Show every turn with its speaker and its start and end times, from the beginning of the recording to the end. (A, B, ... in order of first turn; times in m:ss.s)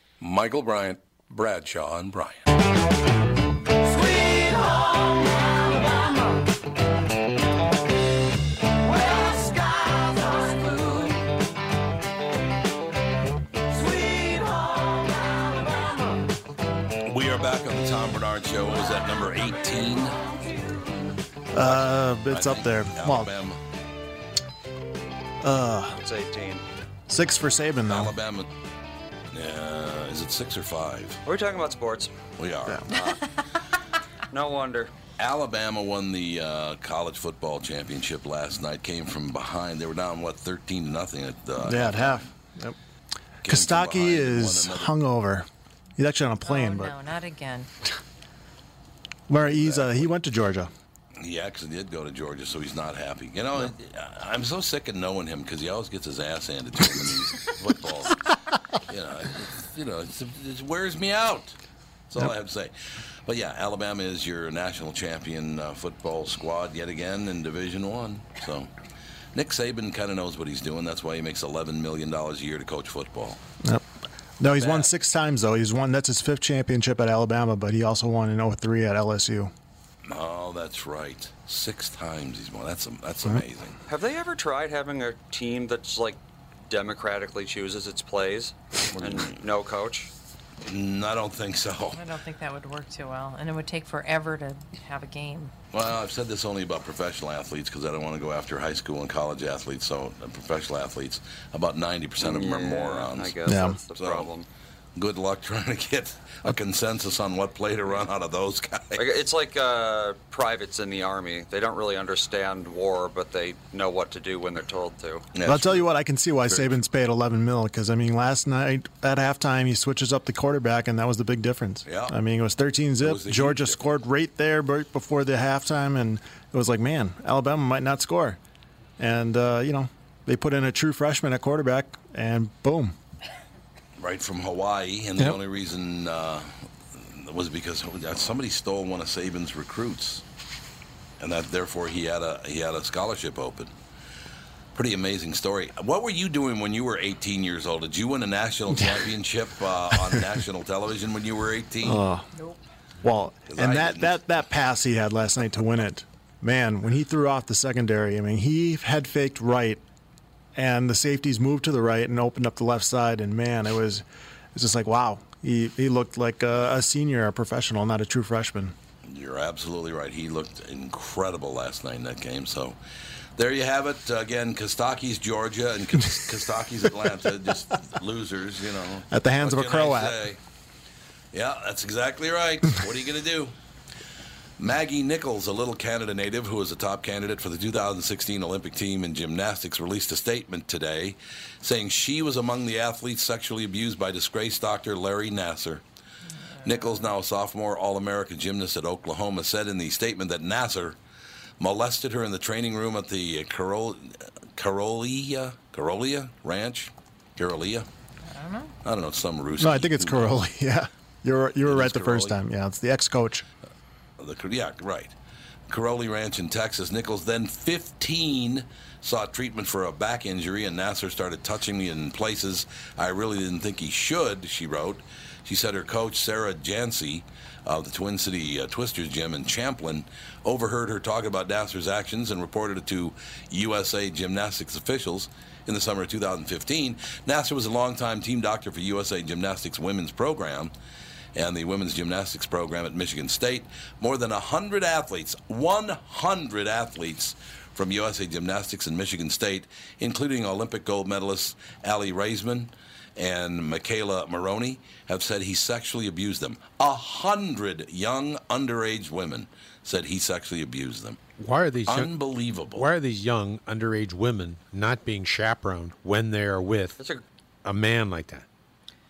0:00.2-0:02.4 A
0:17.0-0:20.2 A
0:21.5-0:23.3 B
0:21.6-0:23.6 A
0:25.4-0:26.0 B
0:26.0-0:26.6 C
0:27.1-0:28.2 B
0:27.9-0:28.5 A
0:29.3-0:31.2 A
0:31.2-0:32.1 C
0:32.4-0:32.9 A
0:32.9-0:33.2 C
0:34.3-0:34.9 C
0:35.2-0:42.2 A
0:41.6-0:42.8 B
0:43.4-0:44.9 A
0:43.4-0:45.4 B
0:46.0-0:46.9 B
0:46.4-0:47.7 D
0:49.3-0:50.7 B
0:49.5-0:50.1 A
0:51.2-1:01.6 A
1:02.1-1:02.7 A
1:03.2-1:08.7 A
1:09.3-1:13.4 A
1:14.4-1:19.5 B
1:20.0-1:23.8 A
1:23.9-1:30.1 C
1:28.9-1:29.4 A
1:30.6-1:32.0 A
1:31.9-1:35.5 D
1:35.7-1:43.4 A
1:42.2-1:44.4 C
1:43.4-1:43.8 B
1:44.0-1:44.3 A
1:45.0-1:49.0 A
1:49.0-1:55.3 C
1:55.3-1:55.9 A
1:55.4-2:08.4 B
1:56.4-1:56.8 A
2:01.9-2:02.1 A
2:03.0-2:03.8 A
2:09.0-2:12.9 B
2:14.0-2:20.2 A
2:21.2-2:23.7 A
2:24.7-2:32.0 A
2:30.0-2:30.2 B
2:31.8-2:32.2 B
2:32.4-2:32.6 D
2:33.0-2:39.8 B
2:33.5-2:34.2 A
2:40.5-2:48.7 B
2:49.0-2:52.8 A
2:53.4-3:00.4 A
2:59.1-3:00.2 B
3:01.3-3:03.5 A
3:04.6-3:15.8 A
3:16.5-3:17.1 D
3:16.6-3:21.0 A
3:21.6-3:27.9 A
3:28.2-3:28.7 D
3:28.8-3:30.3 A
3:29.6-3:33.4 B
3:31.6-3:32.4 A
3:34.2-3:35.2 A
3:35.7-4:00.7 A
4:01.3-4:21.2 A
4:21.4-4:22.1 E
4:21.8-4:22.9 A
4:22.7-4:27.0 E
4:27.6-4:28.4 E